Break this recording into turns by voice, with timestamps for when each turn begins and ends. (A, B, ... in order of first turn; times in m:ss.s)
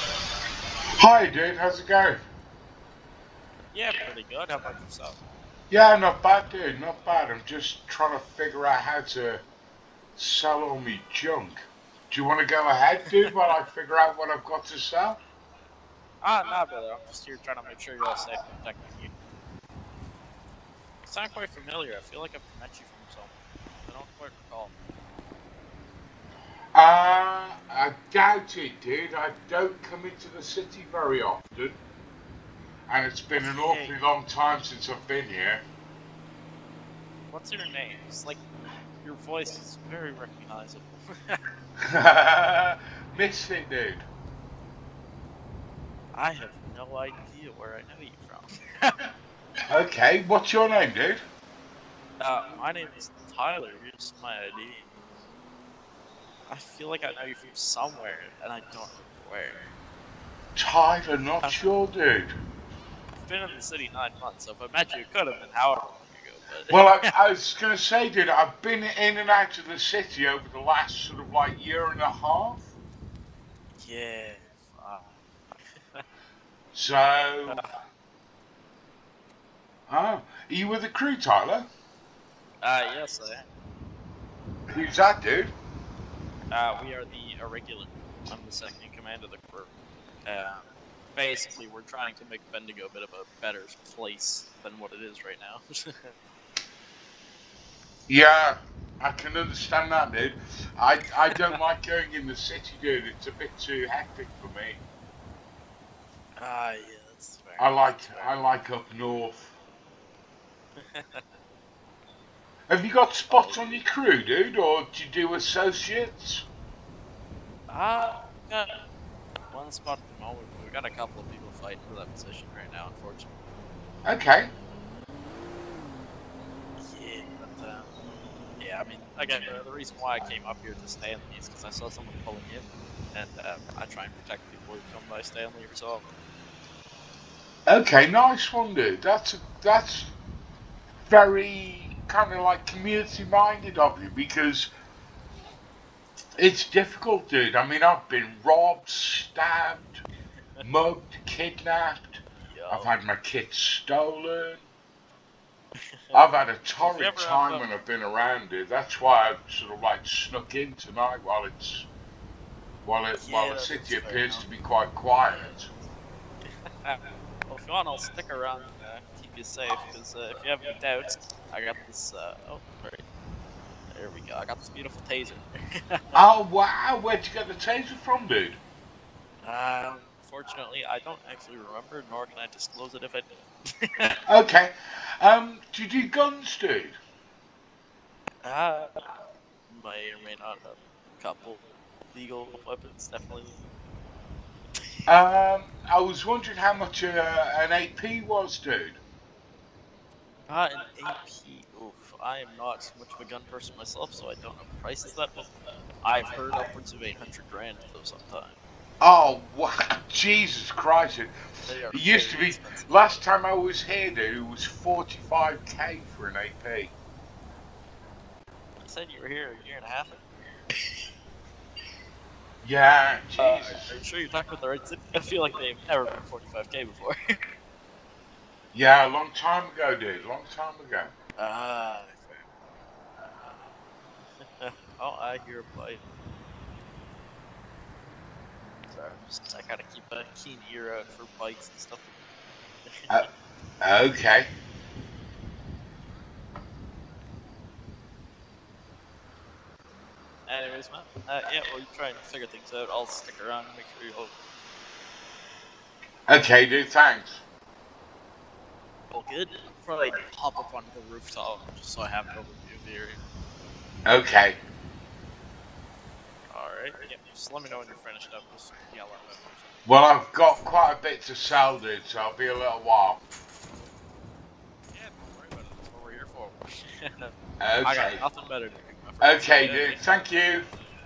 0:01.0-0:02.2 A
0:03.7-0:05.2 B
0:05.7-0:09.4 A
0:10.2-0:15.2 A
0:16.2-0:19.1 B
0:21.0-0:23.3 B
0:23.8-0:24.7 B
0:26.7-0:31.8 A
0:32.9-0:35.6 A
0:33.5-0:34.0 B
0:37.3-0:38.4 B
0:39.0-0:41.4 B
0:41.8-0:44.0 A
0:46.1-0:49.0 B
0:49.7-0:51.2 A
0:52.2-0:54.9 B
0:56.5-0:59.6 B
1:00.6-1:02.3 A
1:01.4-1:01.7 B
1:03.2-1:07.1 B
1:06.7-1:12.7 A
1:13.8-1:16.0 B
1:16.7-1:17.6 A
1:19.9-1:21.7 A
1:22.6-1:23.5 B
1:24.7-1:25.5 A
1:26.5-1:29.7 B
1:30.2-1:30.6 B
1:31.2-1:36.1 B
1:38.1-1:44.8 A
1:41.3-1:41.6 B
1:46.4-1:48.4 B
1:47.6-1:49.5 A
1:50.8-1:51.2 B
1:52.7-1:56.4 A
1:53.3-1:53.8 B
1:57.7-1:58.7 B
1:59.5-2:03.3 B
2:04.0-2:04.5 A
2:06.8-2:07.9 B
2:08.6-2:16.1 B
2:17.7-2:20.1 A
2:21.1-2:24.7 A
2:26.4-2:30.0 A
2:30.6-2:34.6 A
2:32.5-2:33.0 B
2:36.1-2:41.9 A
2:36.8-2:37.6 B
2:42.8-2:45.7 A
2:43.2-2:44.4 B
2:46.8-2:53.0 B
2:53.9-2:56.0 B
2:56.1-2:58.6 A
2:59.4-3:04.2 B
3:04.3-3:07.0 A
3:08.4-3:09.1 B
3:09.7-3:13.6 B
3:15.1-3:19.0 A
3:20.5-3:25.5 B
3:26.0-3:28.6 B
3:29.0-3:31.3 A
3:31.6-3:32.9 B
3:31.9-3:36.9 A
3:38.8-3:40.2 B
3:42.6-3:43.9 A
3:43.4-3:47.4 B
3:48.7-3:51.1 A
3:51.4-3:52.4 B
3:53.2-3:53.6 B
3:54.6-3:56.0 B
3:58.9-4:02.2 B
4:03.8-4:04.5 A
4:10.5-4:14.3 B
4:16.3-4:17.4 A
4:19.1-4:23.2 B
4:24.0-4:24.6 A
4:26.5-4:29.8 B
4:29.8-4:33.2 A
4:34.9-4:40.2 B
4:37.6-4:38.2 A
4:39.2-4:40.7 A